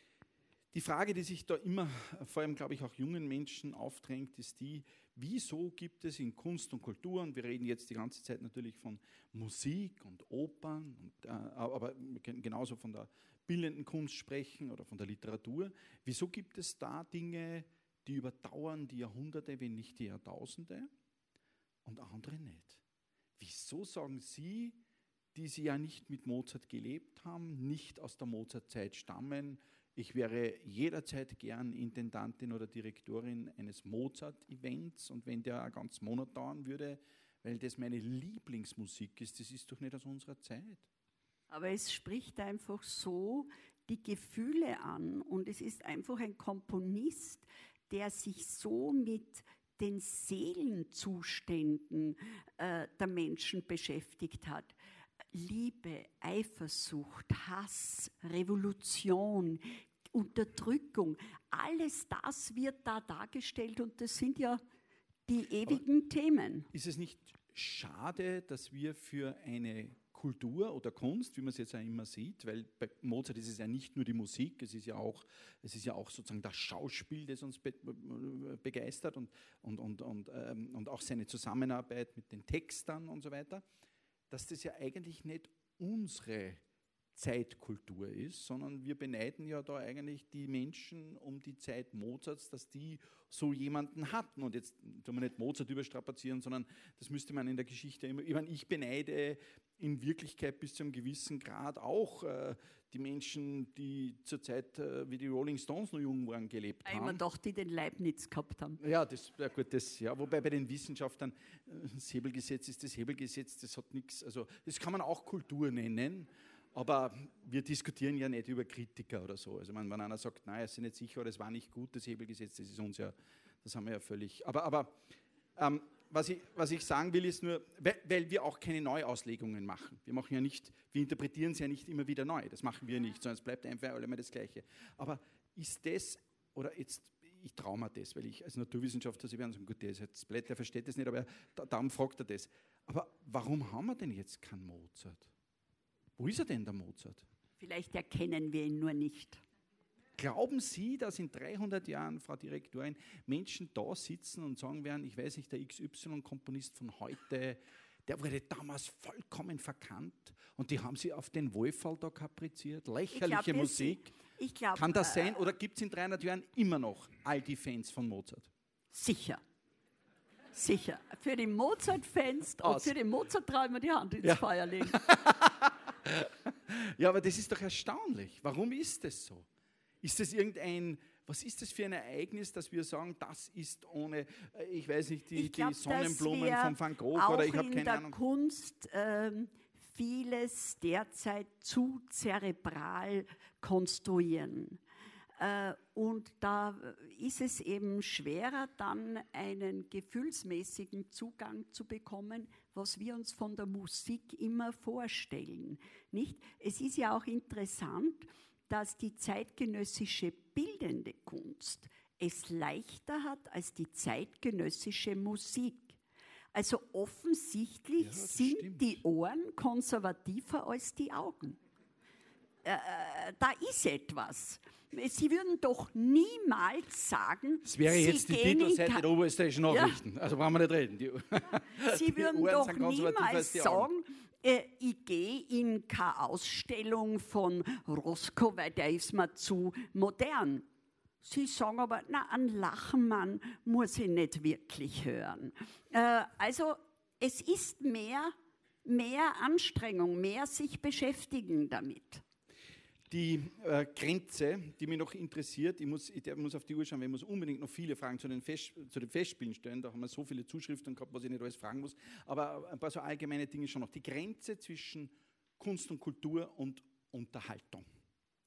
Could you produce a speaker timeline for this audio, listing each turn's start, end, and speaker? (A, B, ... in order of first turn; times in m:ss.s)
0:00.7-0:20.9 A
0:21.8-0:22.8 A
0:23.4-0:24.8 A
0:25.4-0:40.8 A
0:41.5-0:54.7 B
0:55.3-1:04.6 B
1:05.3-1:06.7 B
1:06.7-1:23.6 A
1:24.3-1:26.6 A
1:27.1-1:47.2 A
1:46.9-1:48.8 B
1:48.8-2:05.0 A
2:05.6-2:25.3 A
2:26.2-2:27.3 A
2:27.6-2:29.4 B
2:30.2-2:44.1 A
2:43.1-2:45.4 B
2:44.8-2:48.5 A
2:48.9-2:49.4 B
2:50.5-2:55.0 B
2:52.6-2:52.9 A
2:54.2-2:59.5 A
3:00.0-3:08.2 A
3:05.4-3:14.8 B
3:15.4-3:36.0 B
3:36.5-3:41.6 B
3:38.0-3:39.0 A
3:42.6-3:49.1 B
3:47.6-3:53.9 A
3:49.7-3:50.0 B
3:51.8-4:00.6 B
4:01.2-4:12.2 B
4:13.1-4:27.8 A